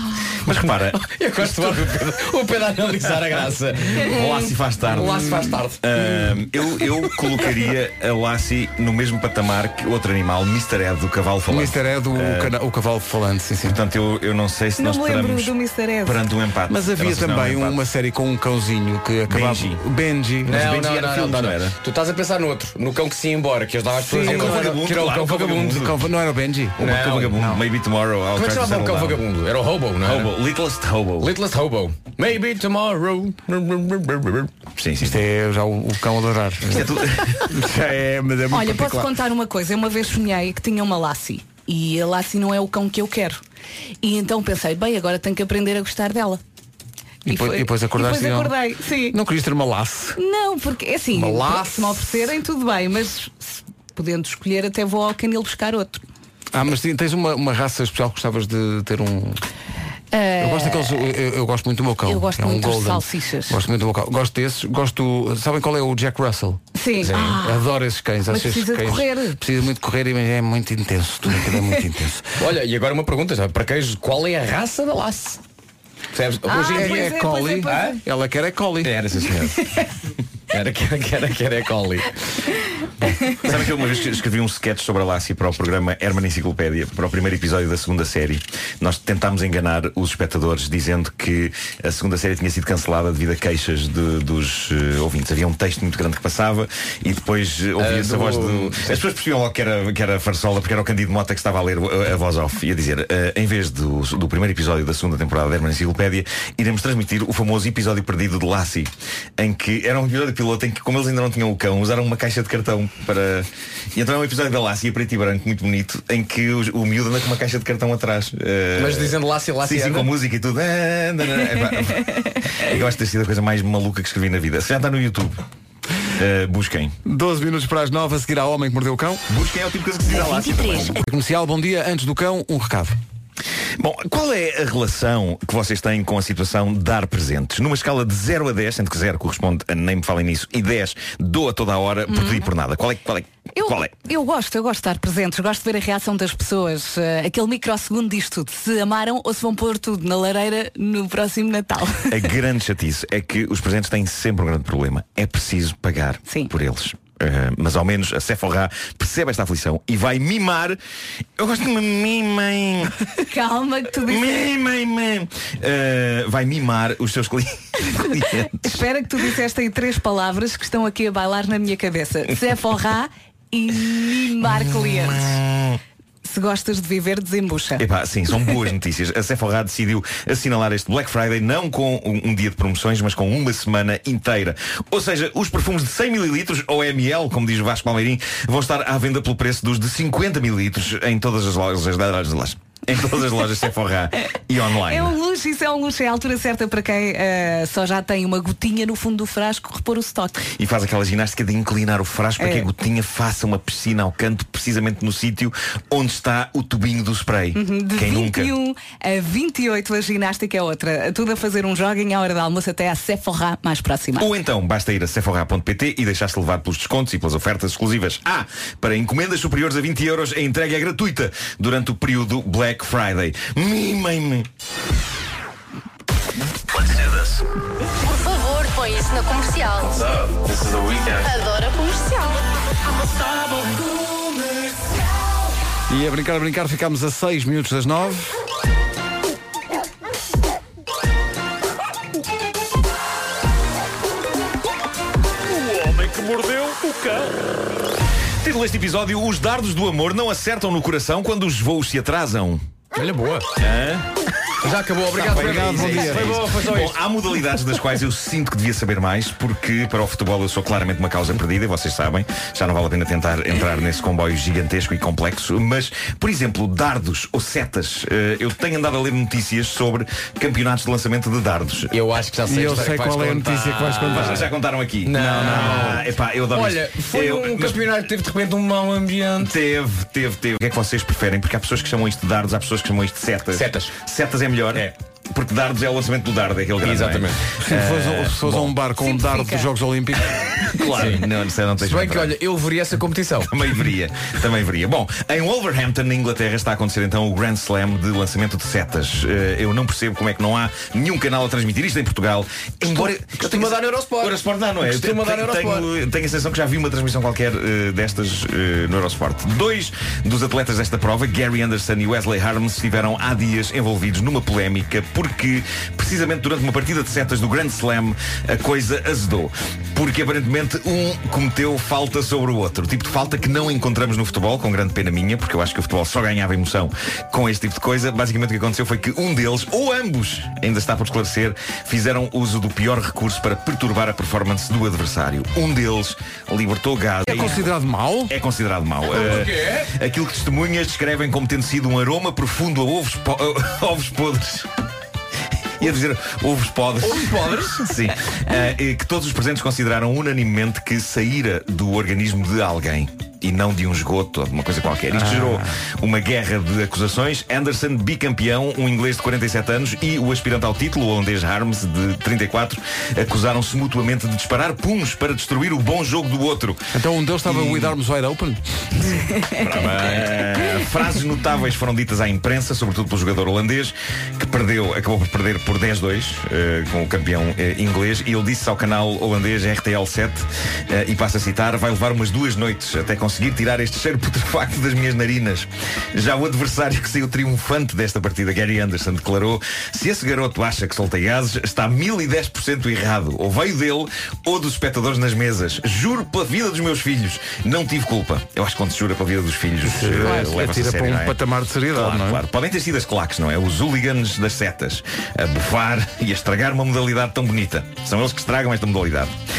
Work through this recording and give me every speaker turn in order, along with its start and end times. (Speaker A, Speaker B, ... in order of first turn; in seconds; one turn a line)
Speaker A: 0.2-7.0
Speaker B: 0.4-1.0
Speaker B: 4.0-5.2
Speaker B: 5.8-12.5
Speaker C: 11.5-13.8
Speaker B: 13.6-15.5
Speaker D: 14.8-16.2
Speaker B: 16.0-17.8
Speaker C: 16.7-21.5
Speaker B: 19.3-19.8
Speaker A: 20.4-25.9
Speaker B: 20.5-21.7
Speaker C: 23.9-24.8
Speaker B: 24.2-25.9
Speaker C: 25.7-27.6
Speaker A: 26.8-27.3
Speaker B: 26.8-29.2
Speaker A: 28.3-30.3
Speaker B: 30.0-31.3
Speaker A: 31.2-34.5
Speaker B: 34.8-35.2
Speaker C: 35.0-39.1
Speaker B: 36.7-37.4
Speaker D: 38.5-43.4
Speaker D: 44.0-46.4
Speaker C: 47.2-48.5
Speaker D: 47.2-49.1
Speaker C: 49.1-50.2
Speaker D: 50.1-56.0
Speaker C: 51.1-52.0
Speaker C: 56.5-59.4
Speaker D: 60.1-60.9
Speaker C: 60.4-66.6
Speaker D: 62.0-63.6
Speaker D: 66.7-67.6
Speaker A: 67.0-67.4
Speaker C: 67.3-72.3
Speaker D: 68.3-69.4
Speaker A: 72.4-75.4
Speaker A: 76.1-77.2
Speaker D: 76.4-78.0
Speaker C: 76.7-79.0
Speaker A: 77.7-78.0
Speaker A: 78.8-79.6
Speaker A: 80.5-82.1
Speaker B: 83.4-122.0
Speaker A: 97.8-99.0
Speaker A: 118.8-120.1
Speaker B: 122.5-125.3
Speaker B: 126.2-126.9
Speaker C: 127.0-129.2
Speaker B: 129.3-131.0
Speaker C: 130.9-133.0
Speaker B: 133.8-143.9
Speaker D: 142.1-142.4
Speaker D: 143.5-152.1
Speaker B: 152.1-160.8
Speaker B: 161.4-162.9
Speaker D: 163.3-164.3
Speaker B: 164.1-168.8
Speaker D: 168.6-175.3
Speaker B: 174.4-175.8
Speaker D: 176.2-177.8
Speaker B: 177.8-195.2
Speaker D: 194.9-200.4
Speaker B: 200.4-208.5
Speaker D: 202.4-202.7
Speaker D: 207.5-214.3
Speaker B: 214.2-224.5
Speaker E: 228.0-230.1
Speaker B: 230.5-231.2
Speaker E: 231.1-232.4
Speaker C: 235.9-238.4
Speaker B: 248.4-252.6
Speaker A: 252.9-253.5
Speaker B: 253.6-254.0
Speaker A: 254.6-257.0
Speaker B: 255.1-271.9
Speaker C: 255.3-256.4
Speaker A: 271.9-274.5
Speaker C: 272.4-274.5
Speaker B: 274.1-277.8
Speaker A: 275.0-279.5
Speaker C: 275.1-276.0
Speaker B: 279.4-288.7
Speaker A: 283.5-284.0
Speaker A: 286.8-287.4
Speaker C: 287.6-290.4
Speaker D: 289.0-289.7
Speaker B: 290.7-292.3
Speaker A: 290.8-293.7
Speaker B: 293.5-337.6
Speaker A: 302.8-305.9
Speaker C: 337.2-338.3
Speaker A: 337.3-337.6
Speaker B: 338.3-344.7
Speaker A: 339.1-339.9
Speaker B: 345.8-366.8
Speaker A: 347.0-347.9
Speaker C: 355.1-355.7
Speaker C: 366.9-368.6
Speaker B: 367.4-367.9
Speaker D: 369.1-369.9
Speaker B: 369.6-401.4
Speaker A: 369.9-370.3
Speaker C: 399.8-402.4
Speaker B: 401.9-409.3